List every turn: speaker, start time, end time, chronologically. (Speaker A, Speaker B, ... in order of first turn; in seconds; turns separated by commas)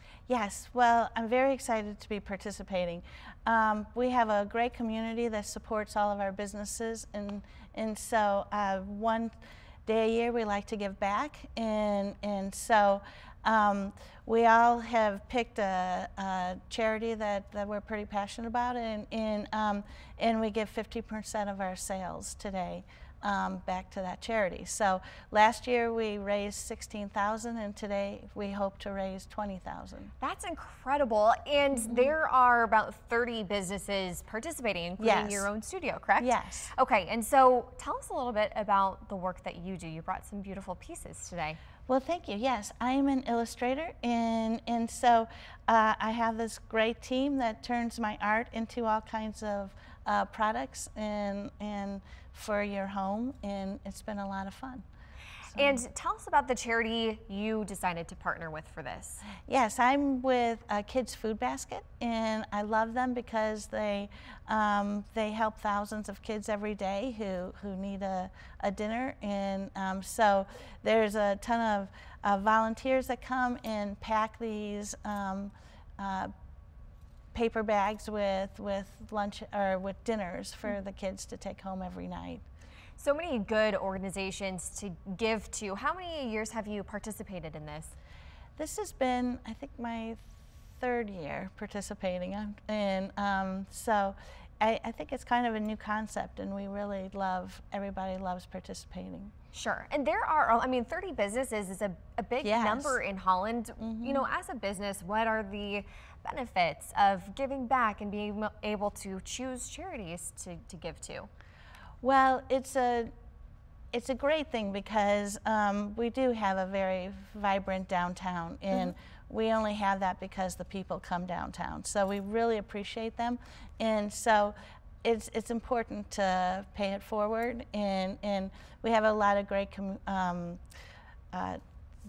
Speaker A: 0.3-9.3, Speaker A: 9.9-30.1, Speaker B: 30.2-41.6, Speaker A: 31.8-32.1, Speaker A: 35.0-35.5, Speaker A: 36.2-36.7, Speaker A: 41.9-54.8, Speaker B: 55.5-59.3, Speaker A: 55.5-55.8, Speaker A: 59.5-76.3, Speaker A: 77.3-82.4, Speaker B: 83.0-87.9, Speaker A: 88.6-99.3, Speaker B: 99.5-111.3, Speaker A: 102.4-103.0, Speaker A: 103.8-104.2, Speaker A: 112.0-113.1, Speaker A: 113.9-130.6, Speaker A: 131.3-131.6